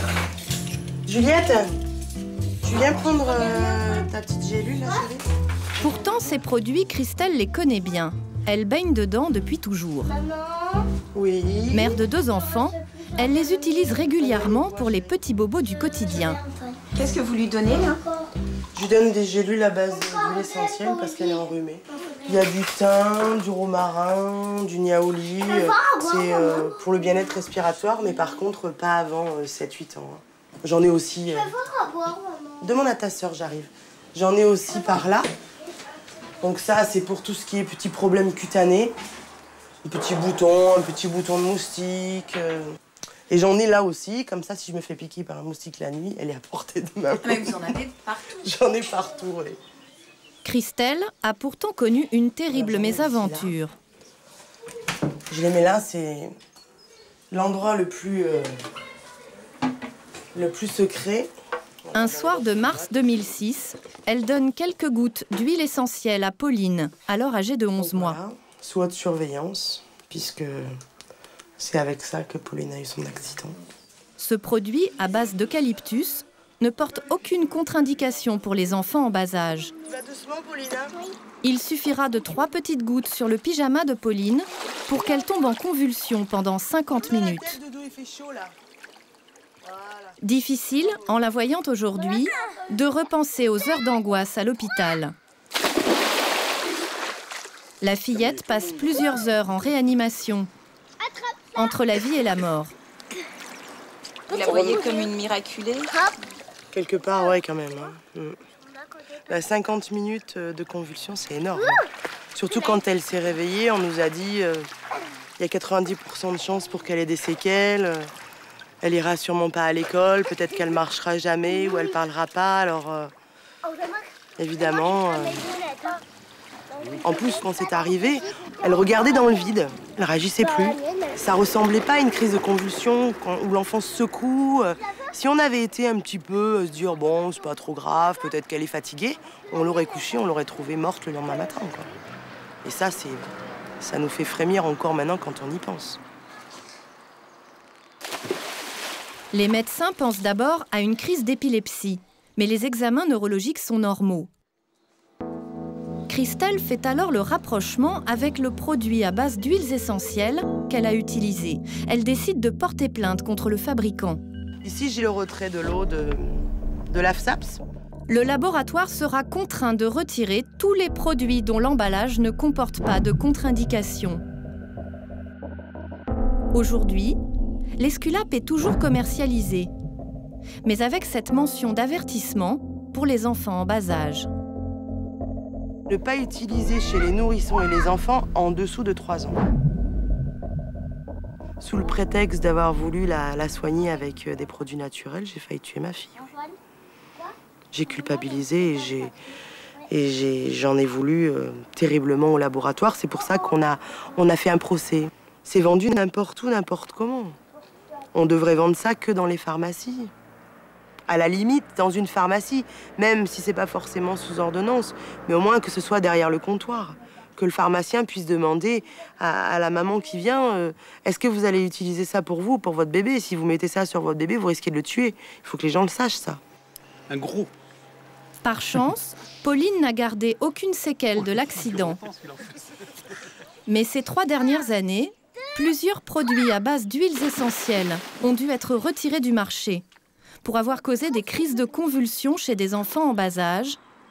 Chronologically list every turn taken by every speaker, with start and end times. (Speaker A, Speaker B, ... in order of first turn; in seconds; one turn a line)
Speaker A: 1.1-1.7
Speaker A: 2.6-5.2
Speaker B: 5.8-10.1
Speaker A: 11.1-11.9
Speaker B: 11.7-16.4
Speaker A: 14.2-15.1
Speaker C: 17.0-18.0
Speaker A: 18.8-31.6
Speaker A: 32.6-35.3
Speaker A: 36.4-38.9
Speaker A: 39.9-42.7
Speaker A: 43.3-49.6
Speaker C: 47.3-48.1
Speaker B: 50.4-53.7
Speaker A: 52.5-53.6
Speaker A: 55.3-56.3
Speaker A: 57.3-58.5
Speaker A: 60.4-61.3
Speaker A: 61.9-63.3
Speaker B: 61.9-68.2
Speaker A: 67.8-70.7
Speaker A: 71.6-73.6
Speaker B: 74.2-79.7
Speaker A: 79.8-81.0
Speaker B: 81.4-87.6
Speaker A: 87.0-88.5
Speaker A: 89.6-90.1
Speaker B: 90.2-95.1
Speaker B: 97.8-100.5
Speaker B: 101.6-102.7
Speaker C: 104.3-105.9
Speaker A: 104.4-105.1
Speaker A: 106.7-108.4
Speaker A: 109.3-111.8
Speaker A: 112.3-114.7
Speaker A: 115.4-118.1
Speaker A: 118.8-123.1
Speaker A: 124.4-125.6
Speaker A: 127.0-141.9
Speaker A: 142.6-143.3
Speaker A: 143.8-146.0
Speaker B: 149.3-154.3
Speaker B: 156.1-164.2
Speaker A: 164.6-167.6
Speaker B: 168.1-174.2
Speaker B: 176.5-177.2
Speaker B: 177.8-179.7
Speaker B: 180.6-184.3
Speaker A: 185.9-189.4
Speaker A: 191.6-196.3
Speaker A: 197.7-199.1
Speaker A: 199.9-207.4
Speaker A: 208.1-210.1
Speaker A: 211.1-226.4
Speaker B: 228.4-232.0
Speaker B: 233.7-239.8
Speaker B: 240.4-243.8